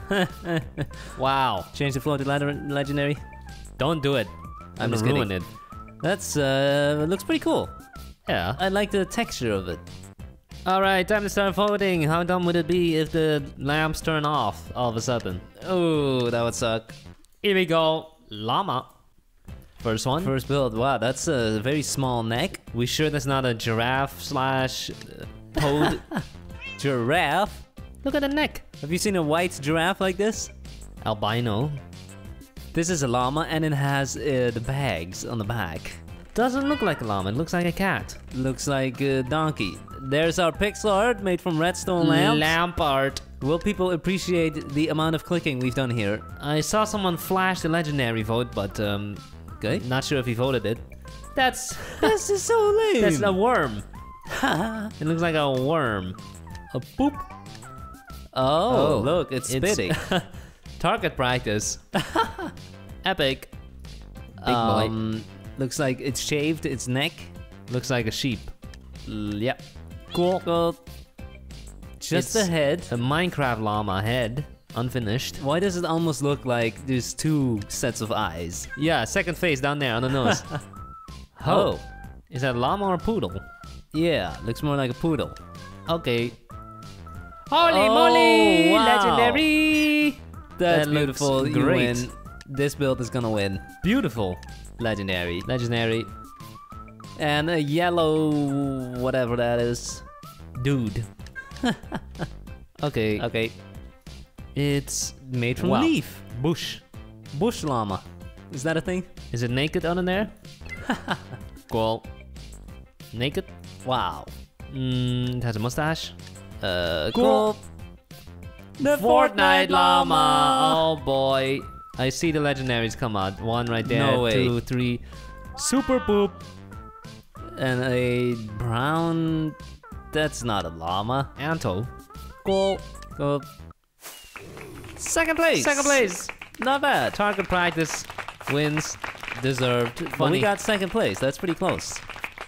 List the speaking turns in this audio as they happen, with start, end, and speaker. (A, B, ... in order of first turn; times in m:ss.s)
0:00.1-0:00.9 A
0:01.2-0:01.7 B
0:01.7-0:03.2 A
0:03.8-0:05.5 B
0:04.8-0:05.3 A
0:06.0-0:07.7 A
0:08.3-0:08.6 B
0:08.6-0:09.8 A
0:10.7-0:15.4 B
0:15.6-0:17.0 A
0:17.4-0:18.9 B
0:19.8-0:20.3 B
0:20.2-0:22.6 A
0:22.7-0:26.1 B
0:26.8-0:27.6 A
0:28.0-0:28.7 B
0:28.8-0:30.5 A
0:31.0-0:31.8 B
0:32.7-0:36.0 A
0:36.3-0:38.2 B
0:38.3-0:42.6 A
0:42.0-0:43.2 B
0:43.4-0:46.2 A
0:46.4-0:49.2 B
0:49.7-0:50.8 B
0:51.4-0:52.1 B
0:52.0-0:53.4 A
0:53.0-0:53.8 B
0:54.3-0:54.9 A
0:55.0-0:56.2 B
0:56.7-0:57.2 B
0:58.3-0:59.9 A
0:58.7-1:01.8 B
1:02.0-1:02.5 A
1:03.0-1:03.5 B
1:04.4-1:04.9 B
1:04.4-1:07.3 A
1:07.7-1:08.5 B
1:09.1-1:09.6 A
1:10.1-1:10.4 B
1:10.4-1:10.8 A
1:12.0-1:12.9 A
1:12.1-1:15.4 B
1:15.4-1:18.7 A
1:18.8-1:20.5 B
1:21.4-1:21.8 B
1:21.5-1:21.8 A
1:22.3-1:23.4 B
1:23.9-1:25.4 A
1:25.9-1:26.4 B
1:27.5-1:32.1 B
1:27.6-1:29.5 A
1:30.6-1:33.6 A
1:33.8-1:34.4 B
1:34.8-1:35.5 A
1:35.4-1:36.1 B
1:37.2-1:40.1 A
1:40.6-1:41.1 B
1:41.6-1:42.3 A
1:42.8-1:43.3 B
1:43.2-1:43.5 A
1:44.6-1:45.9 B
1:45.2-1:46.8 A
1:47.3-1:49.1 A
1:49.3-1:50.3 B
1:50.8-1:51.3 A
1:51.7-1:52.1 B
1:53.1-1:53.5 B
1:53.8-1:54.3 A
1:54.7-1:56.2 B
1:56.6-1:57.6 A
1:57.1-1:57.5 B
1:58.8-2:00.9 A
1:58.8-2:05.0 B
2:03.8-2:04.5 A
2:05.6-2:06.4 B
2:07.6-2:09.6 A
2:10.1-2:11.3 A
2:11.4-2:11.9 B
2:12.4-2:12.8 B
2:13.2-2:13.5 A
2:15.0-2:17.2 A
2:15.5-2:16.3 B
2:17.1-2:18.8 B
2:18.8-2:22.0 A
2:20.2-2:20.5 B